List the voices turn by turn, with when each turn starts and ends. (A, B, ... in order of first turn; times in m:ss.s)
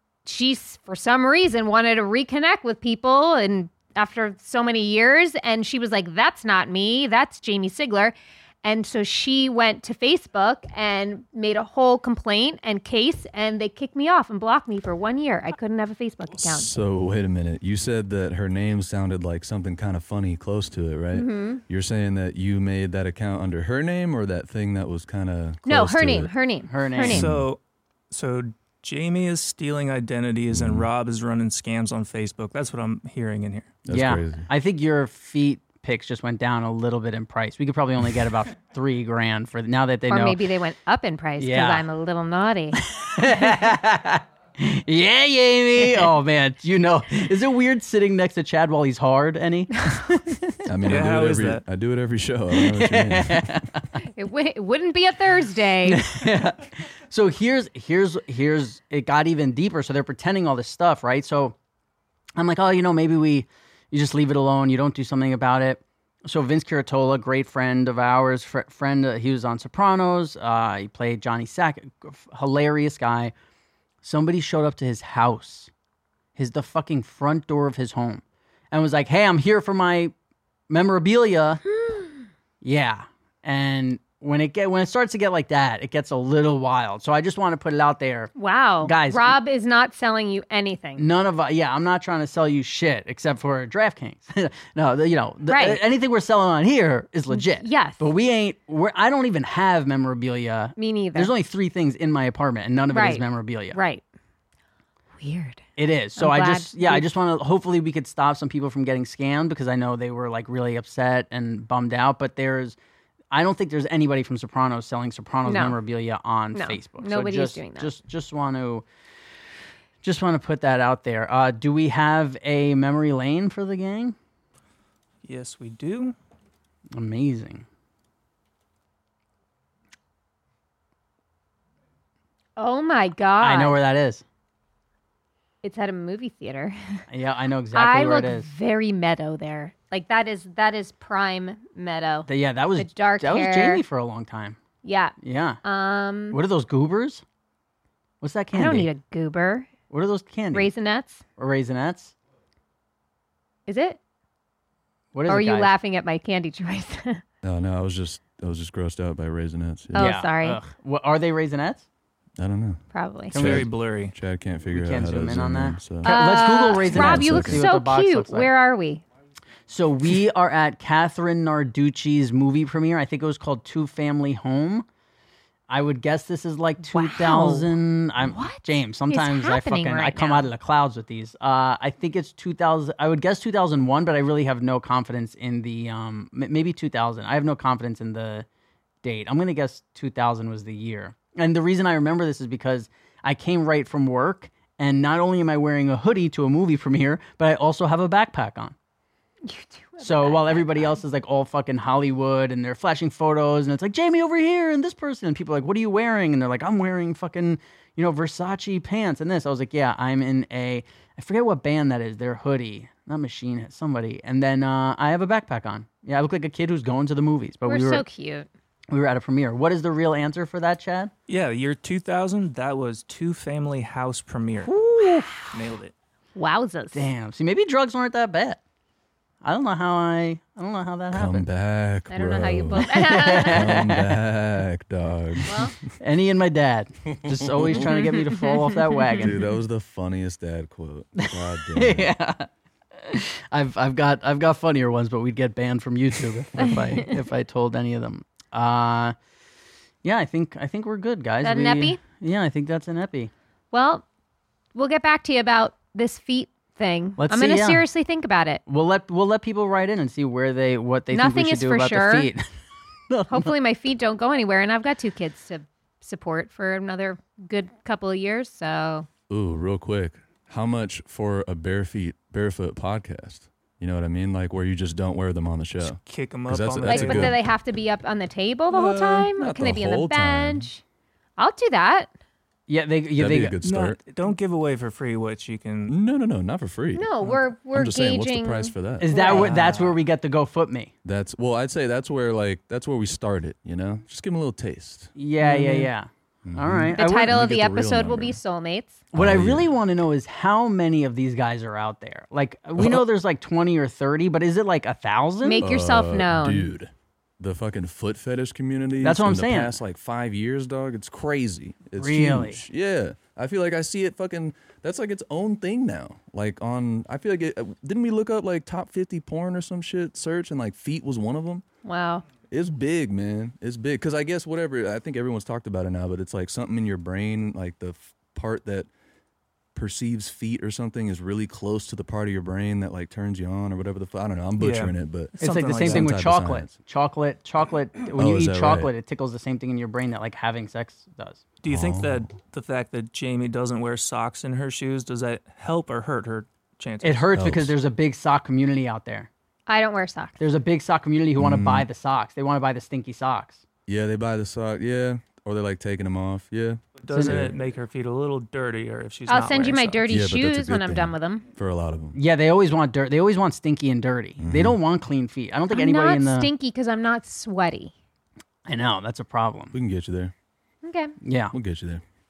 0:00.2-0:16.7 A
0:16.4-0:26.3 B
0:21.1-0:21.6 A
0:25.7-0:27.3 A
0:26.7-0:27.3 C
0:27.1-0:33.7 D
0:27.1-0:27.5 B
0:30.5-0:30.9 B
0:33.8-0:34.5 B
0:33.9-0:40.4 C
0:40.1-0:42.8 A
0:41.4-0:41.9 C
0:42.8-0:50.6 C
0:49.8-0:50.2 A
0:50.7-0:53.7 B
0:50.8-0:51.6 D
0:52.5-0:53.8 C
0:54.0-0:56.1 A
0:55.9-1:01.6 C
1:02.4-1:13.3 C
1:14.0-1:15.7 C
1:16.4-1:20.1 C
1:20.7-1:21.6 C
1:21.7-1:22.2 A
1:22.6-1:28.3 C
1:28.4-1:31.0 A
1:28.8-1:29.4 C
1:31.0-1:43.8 C
1:35.5-1:35.8 A
1:37.3-1:38.0 A
1:40.8-1:41.3 A
1:42.9-1:44.0 A
1:45.2-1:45.6 A
1:45.8-1:52.8 C
1:46.2-1:47.0 A
1:53.3-1:58.8 C
1:55.4-1:55.8 A
1:56.5-1:57.9 A
2:00.0-2:04.2 C
2:05.2-2:06.2 D
2:06.9-2:07.6 C
2:12.6-2:13.8 A
2:13.4-2:14.2 C
2:15.6-2:17.0 A
2:17.1-2:18.5 C
2:17.7-2:23.8 A
2:22.3-2:24.6 C
2:24.8-2:26.4 A
2:25.2-2:25.6 C
2:26.3-2:27.2 C
2:28.2-2:28.9 C
2:28.5-2:29.7 A
2:29.9-2:30.7 C
2:30.5-2:31.2 A
2:31.4-2:32.1 C
2:33.7-2:34.0 A
2:35.1-2:35.7 C
2:35.3-2:37.2 A
2:37.4-2:40.2 B
2:39.9-2:40.6 A
2:39.9-2:41.9 C
2:42.4-2:42.8 B
2:42.9-2:43.3 A
2:43.3-2:43.7 C
2:43.3-2:46.1 B
2:43.3-2:44.2 D
2:44.7-2:48.5 C
2:46.0-2:49.0 A
2:46.8-2:47.6 B
2:49.7-2:54.9 C
2:55.7-3:08.5 C
2:56.8-2:57.7 A
2:58.3-3:00.5 A
3:09.0-3:18.8 C
3:19.4-3:20.9 A
3:20.0-3:38.0 C
3:37.7-3:38.5 A
3:38.9-3:41.1 C
3:41.3-3:44.8 D
3:44.8-3:45.3 C
3:45.0-3:45.5 A
3:45.5-3:45.9 D
3:46.4-3:47.1 A
3:46.9-3:48.6 C
3:49.4-3:51.5 C
3:51.1-3:55.6 B
3:52.1-3:53.8 A
3:52.8-3:54.2 C
3:55.4-3:55.8 A
3:56.0-3:59.4 C
3:57.3-3:57.9 B
3:57.9-3:58.8 A
3:59.2-4:02.1 B
4:01.2-4:09.2 C
4:10.0-4:13.3 C
4:11.4-4:12.0 A
4:13.7-4:14.0 A
4:14.8-4:18.6 A
4:17.2-4:17.9 C
4:18.7-4:22.4 C
4:21.1-4:22.3 A
4:23.1-4:23.5 C
4:23.3-4:29.1 A
4:29.3-4:37.4 B
4:35.8-4:37.4 D
4:36.9-4:40.8 A
4:38.7-4:40.7 B
4:41.4-4:42.1 A
4:42.7-4:43.6 C
4:43.2-4:44.0 B
4:43.6-4:46.0 D
4:45.9-4:49.1 B
4:47.0-4:49.6 A
4:49.0-4:50.9 C
4:49.2-4:50.0 D
4:51.0-4:55.9 B
4:55.2-4:57.3 C
4:56.5-4:58.4 B
4:56.9-4:59.0 A
4:59.1-5:05.7 C
4:59.2-4:59.7 B
5:05.4-5:06.7 A
5:05.6-5:21.6 B
5:09.0-5:09.7 C
5:12.0-5:12.6 C
5:21.8-5:22.2 A
5:22.5-5:28.9 B
5:29.7-5:36.8 B
5:34.6-5:36.2 D
5:35.4-5:41.4 C
5:38.2-5:38.9 B
5:41.6-5:47.3 D
5:41.7-5:42.3 B
5:47.0-5:49.3 C
5:47.4-5:47.8 B
5:49.7-5:50.4 A
5:50.4-5:53.6 C
5:51.4-5:51.9 B
5:53.9-5:57.6 B
5:57.0-6:00.0 D
5:57.1-5:57.4 C
5:59.3-6:01.4 A
6:00.1-6:02.2 B
6:02.2-6:06.5 C
6:04.4-6:04.8 B
6:05.7-6:07.9 A
6:08.7-6:09.7 C
6:09.7-6:10.3 B
6:10.8-6:11.2 A
6:11.2-6:11.5 C
6:11.5-6:12.0 B